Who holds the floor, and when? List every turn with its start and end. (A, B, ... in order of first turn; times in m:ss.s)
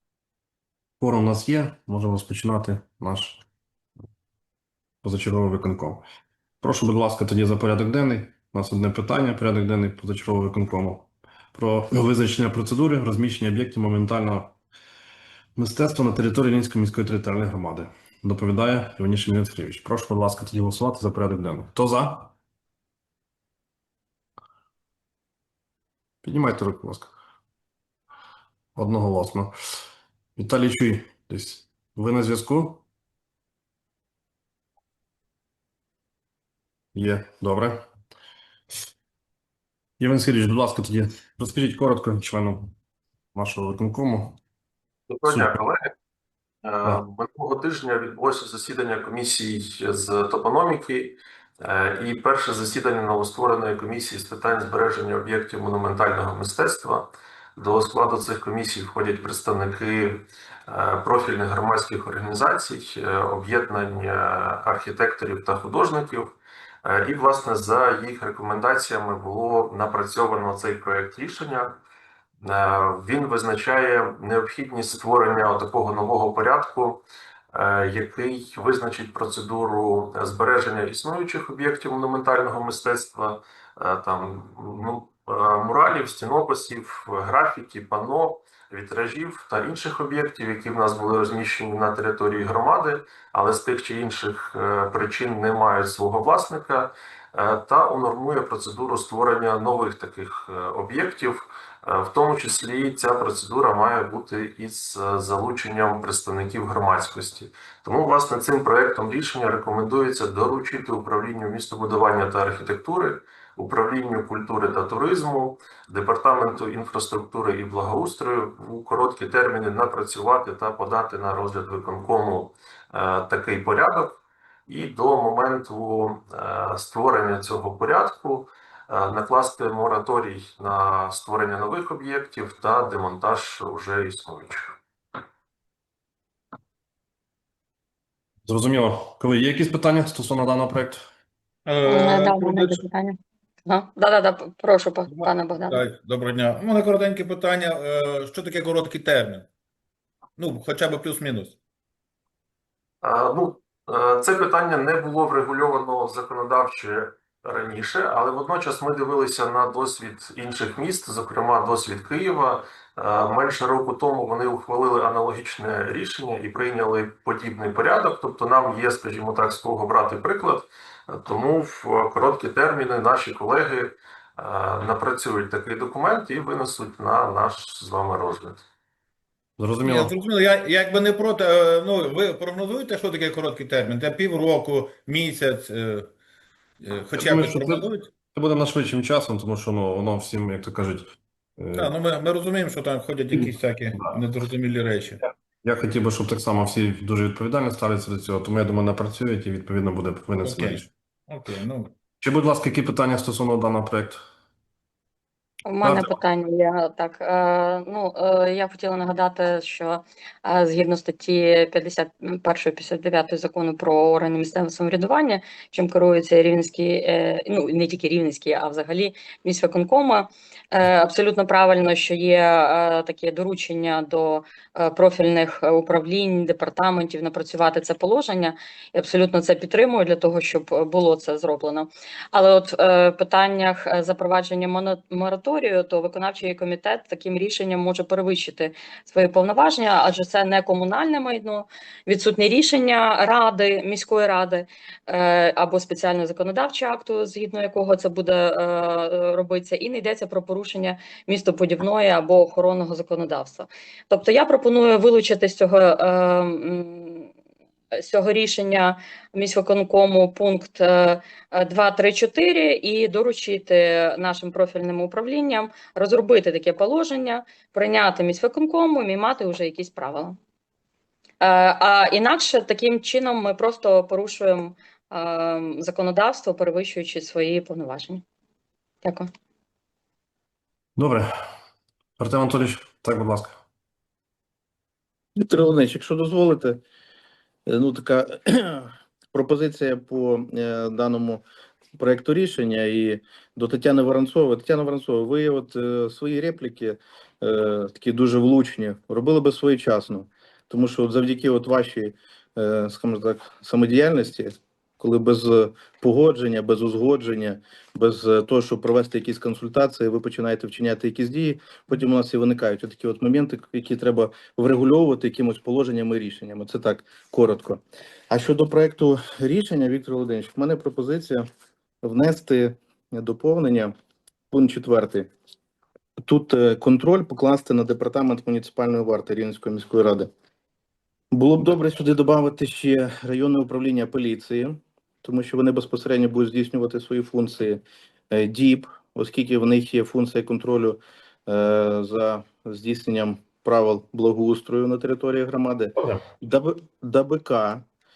0:01.0-0:03.4 A
0:05.0-0:06.0 A
0:06.6-0:14.6 A
0:15.6-0:22.3 A
0:26.2-0:27.1 A
0:28.8-0:29.5 A
0:30.4-0:32.8 A
0:37.0-0:37.8 A
0:40.0-0:42.7 A
0:43.4-0:44.4 A
0:45.1-0:45.9 B
0:45.3-0:45.6 A
0:46.6-1:11.8 B
1:12.4-2:14.7 B
2:18.5-2:21.0 A
2:21.7-2:22.8 C
2:21.8-2:25.8 D
2:25.1-2:29.5 C
2:30.4-2:31.6 C
2:33.0-2:58.6 B
2:59.6-3:00.1 A
2:59.8-3:06.1 C
3:06.8-3:08.1 C
3:07.2-3:11.9 A
3:11.8-3:15.2 C
3:15.6-3:20.9 A
3:20.4-3:21.9 C
3:22.2-3:24.2 A
3:25.6-4:17.3 D
3:25.8-3:26.2 A
4:18.0-4:30.4 D
4:31.4-4:38.2 D
4:39.0-4:39.3 D
4:41.0-4:41.3 A
4:42.2-4:43.6 A
4:45.4-4:46.8 E
4:47.7-4:51.4 E
4:52.0-5:21.4 E
5:22.0-5:23.9 E
5:24.5-5:25.3 E
5:26.2-5:30.3 E
5:31.3-5:47.8 E